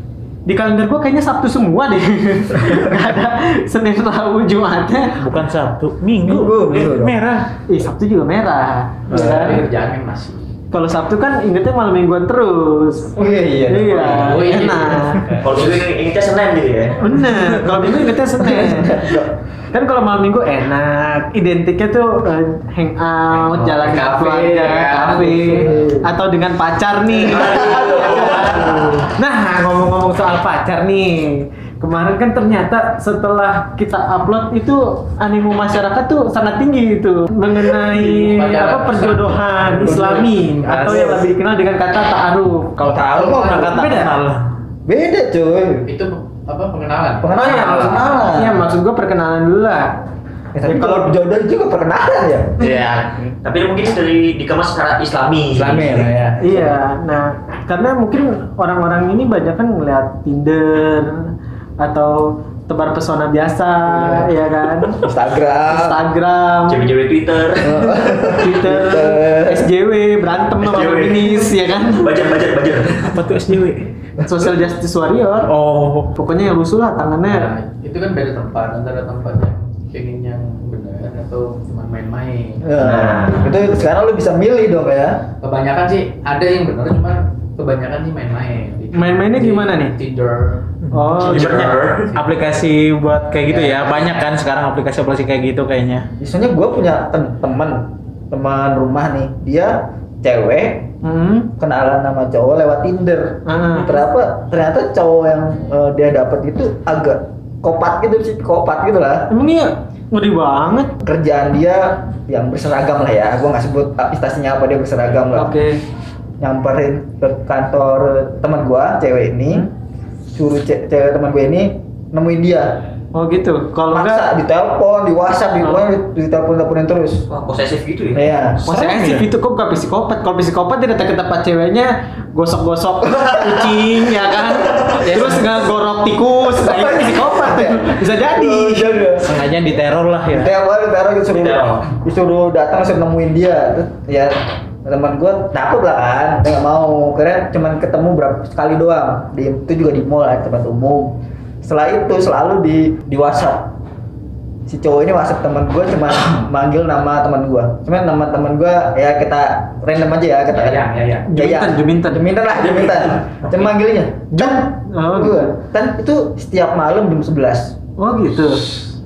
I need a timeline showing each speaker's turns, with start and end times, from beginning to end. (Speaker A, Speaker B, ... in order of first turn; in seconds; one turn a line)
Speaker A: 0.4-5.2
Speaker B: 5.2-7.5
Speaker C: 6.2-7.2
Speaker A: 7.7-9.6
Speaker C: 9.1-9.4
Speaker D: 9.1-10.4
Speaker A: 10.7-13.1
Speaker C: 13.1-14.5
Speaker A: 13.7-15.3
Speaker D: 13.9-15.8
Speaker E: 15.4-17.0
Speaker A: 17.0-19.2
Speaker C: 18.4-19.3
Speaker A: 19.7-44.1
Speaker D: 23.3-25.7
Speaker C: 25.6-26.1
Speaker C: 27.2-29.0
Speaker E: 27.2-28.7
Speaker D: 37.9-40.1
Speaker B: 39.8-41.2
Speaker C: 40.8-41.2
Speaker C: 42.8-44.1
Speaker B: 44.0-44.4
Speaker C: 44.9-45.9
Speaker D: 45.9-48.1
Speaker C: 47.2-48.6
Speaker A: 47.3-49.9
Speaker C: 50.5-52.7
Speaker A: 50.6-51.1
Speaker B: 52.6-53.3
Speaker E: 53.4-56.0
Speaker C: 55.5-56.4
Speaker A: 56.4-65.0
Speaker C: 63.9-64.2
Speaker C: 65.0-66.0
Speaker A: 65.7-66.9
Speaker E: 66.7-67.8
Speaker C: 67.6-69.7
Speaker A: 67.8-72.3
Speaker E: 70.6-73.2
Speaker B: 73.0-73.9
Speaker A: 74.2-75.5
Speaker B: 75.4-76.1
Speaker A: 76.1-77.5
Speaker D: 77.2-82.7
Speaker C: 82.6-85.2
Speaker E: 82.8-83.4
Speaker D: 85.4-90.6
Speaker A: 88.9-89.9
Speaker A: 90.9-91.7
Speaker B: 90.9-96.1
Speaker E: 91.2-92.1
Speaker D: 91.4-92.3
Speaker C: 93.5-94.0
Speaker C: 96.2-109.3
Speaker A: 101.0-101.3
Speaker A: 103.5-104.0
Speaker A: 109.3-111.0
Speaker C: 111.0-115.5
Speaker A: 115.3-115.8
Speaker C: 116.4-119.7
Speaker C: 120.3-122.8
Speaker A: 123.1-124.3
Speaker C: 123.9-127.3
Speaker E: 127.3-128.2
Speaker C: 128.1-128.6
Speaker B: 128.6-129.3
Speaker A: 128.6-139.0
Speaker B: 135.0-135.6
Speaker C: 136.4-139.3
Speaker B: 139.2-140.5
Speaker C: 140.3-153.7
Speaker E: 141.3-141.8
Speaker C: 154.7-167.8
Speaker D: 160.5-161.3
Speaker A: 161.3-162.2
Speaker A: 164.3-165.5
Speaker A: 168.0-168.7